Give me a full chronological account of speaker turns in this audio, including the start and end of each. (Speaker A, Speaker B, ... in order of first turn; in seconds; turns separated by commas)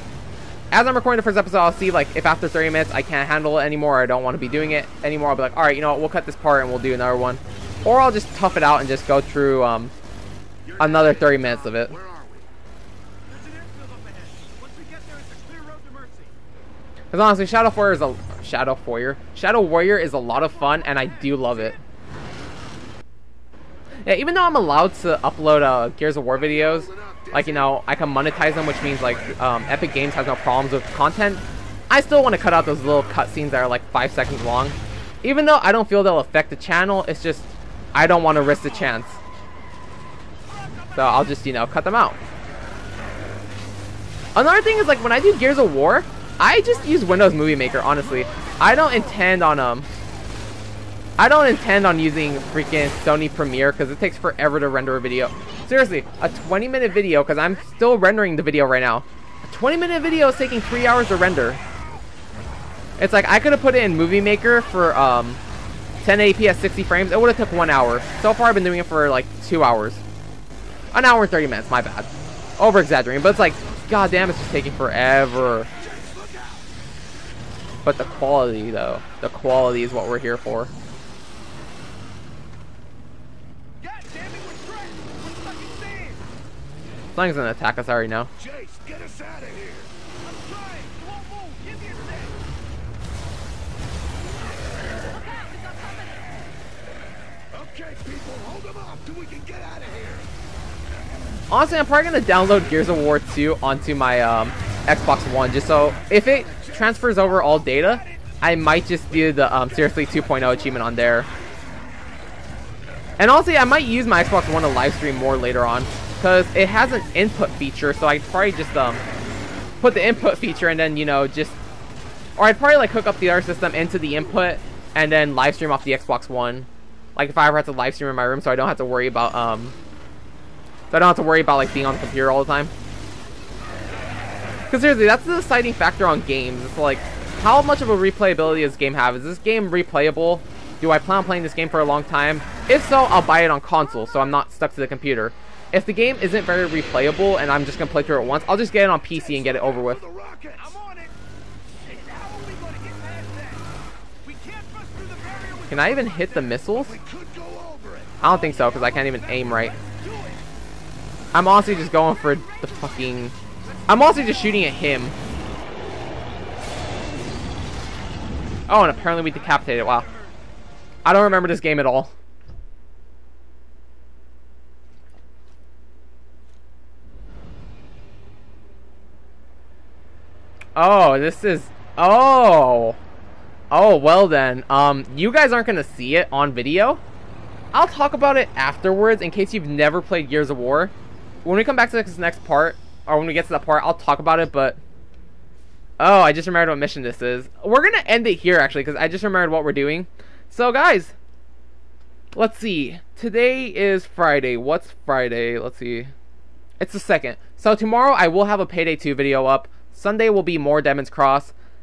Speaker A: 0.7-9.9, Speaker B: 10.7-12.5, Speaker A: 10.8-11.9, Speaker C: 13.3-16.3, Speaker A: 17.1-21.8, Speaker A: 24.0-39.2, Speaker A: 40.9-42.2, Speaker A: 44.4-49.9, Speaker A: 51.2-61.6, Speaker A: 63.0-65.4, Speaker A: 66.0-70.0, Speaker A: 70.9-75.7, Speaker B: 76.0-76.5, Speaker A: 77.8-80.7, Speaker C: 83.8-86.2, Speaker A: 87.1-88.3, Speaker B: 88.4-89.9, Speaker C: 90.2-92.3, Speaker C: 95.1-96.3, Speaker B: 97.5-100.3, Speaker A: 101.5-111.3, Speaker A: 113.2-119.0, Speaker A: 119.8-121.6, Speaker A: 122.4-129.8, Speaker A: 130.9-132.7, Speaker A: 134.7-150.0, Speaker B: 149.9-150.8, Speaker C: 150.8-151.1, Speaker C: 151.9-153.6, Speaker C: 154.4-155.6, Speaker A: 155.7-157.0, Speaker B: 157.0-158.1, Speaker A: 158.2-159.8, Speaker A: 161.3-163.3, Speaker A: 163.9-165.2, Speaker A: 168.7-170.1, Speaker A: 171.0-172.1, Speaker A: 180.8-183.0, Speaker A: 183.7-187.0, Speaker A: 187.7-190.9, Speaker A: 191.4-194.8, Speaker A: 196.0-201.1, Speaker A: 202.3-206.1, Speaker A: 206.8-211.5